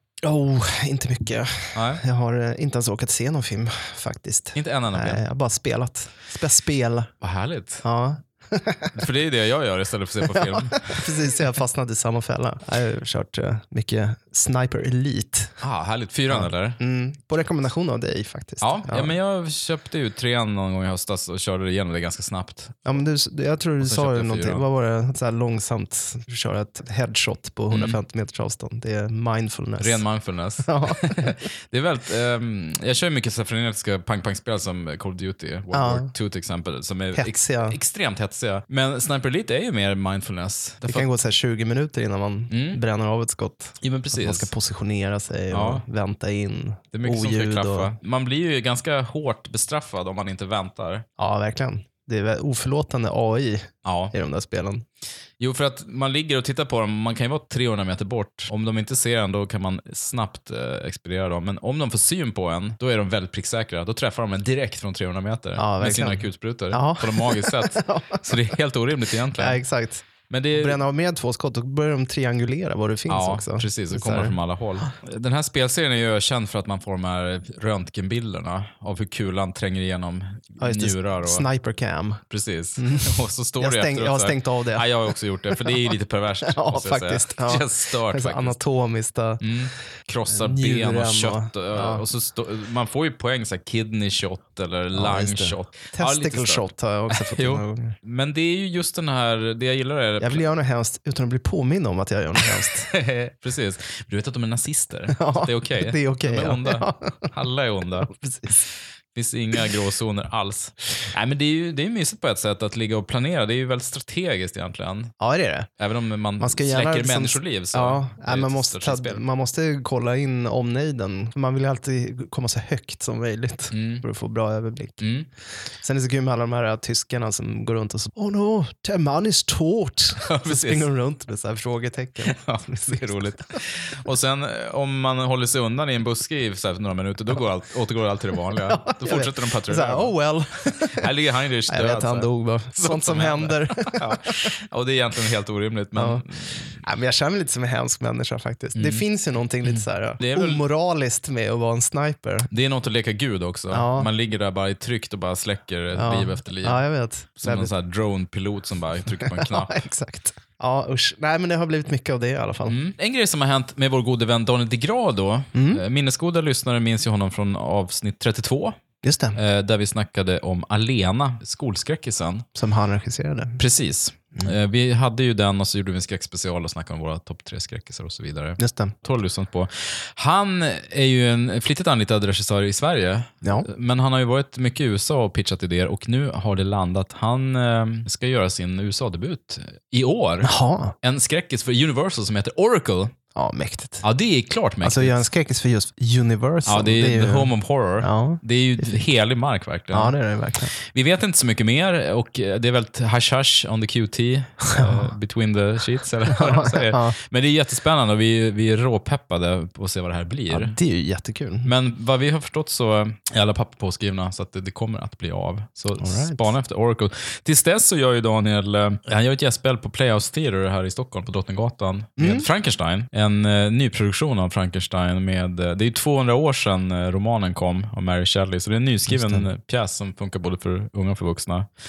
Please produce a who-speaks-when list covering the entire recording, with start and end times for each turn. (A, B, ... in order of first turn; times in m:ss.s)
0:00.2-0:07.1 A
0:01.7-0:02.0 B
0:04.5-0:05.2 B
0:07.2-0:07.8 B
0:07.8-0:08.9 A
0:08.9-0:11.1 B
0:10.3-0:15.6 A
0:15.6-0:16.8 B
0:16.3-0:19.1 A
0:18.6-0:23.0 B
0:22.8-0:30.0 A
0:23.8-0:24.6 B
0:27.7-0:28.0 B
0:29.8-0:41.2 B
0:30.6-0:31.4 A
0:35.7-0:36.1 A
0:37.1-0:37.8 A
0:40.8-0:47.9 A
0:42.5-0:42.8 B
0:43.8-0:44.5 B
0:45.5-0:45.8 B
0:46.9-0:51.0 B
0:51.2-0:54.8 A
0:53.8-0:54.1 B
0:55.4-1:09.6 B
1:05.6-1:08.5 A
1:09.3-1:14.8 A
1:10.3-1:10.8 B
1:13.1-1:21.5 B
1:20.6-1:22.2 A
1:22.3-1:28.6 B
1:22.8-1:25.9 A
1:26.4-1:29.6 A
1:29.4-1:40.5 B
1:30.3-1:32.0 A
1:34.9-1:38.0 A
1:40.2-1:42.9 A
1:42.4-1:55.1 B
1:45.1-1:47.3 A
1:48.0-1:48.6 A
1:55.2-1:55.7 A
1:55.8-1:59.2 B
1:56.4-2:05.1 A
2:03.7-2:04.0 B
2:05.0-2:05.3 B
2:05.8-2:13.6 A
2:10.2-2:10.9 B
2:12.2-2:20.1 B
2:18.7-2:21.1 A
2:20.7-2:26.8 B
2:21.7-2:24.5 A
2:25.9-2:26.2 A
2:26.8-2:32.5 A
2:28.7-2:29.0 B
2:29.6-2:30.6 B
2:32.5-2:36.8 B
2:33.7-2:34.1 A
2:35.9-2:37.7 A
2:37.4-2:39.8 B
2:39.2-2:42.8 A
2:42.7-2:48.8 B
2:45.5-2:45.8 A
2:49.0-2:49.4 A
2:49.3-2:52.5 B
2:52.6-2:53.6 A
2:53.6-3:13.1 B
2:58.6-2:58.9 A
3:03.4-3:03.7 A
3:10.4-3:10.9 A
3:13.3-3:14.0 A
3:14.0-3:15.2 B
3:14.8-3:19.0 A
3:16.6-3:20.2 B
3:19.9-3:20.7 A
3:20.8-3:30.8 B
3:24.6-3:25.1 A
3:26.3-3:27.2 A
3:30.5-3:31.7 A
3:31.6-3:51.7 B
3:36.0-3:36.5 A
3:42.2-3:42.5 A
3:49.1-3:49.5 A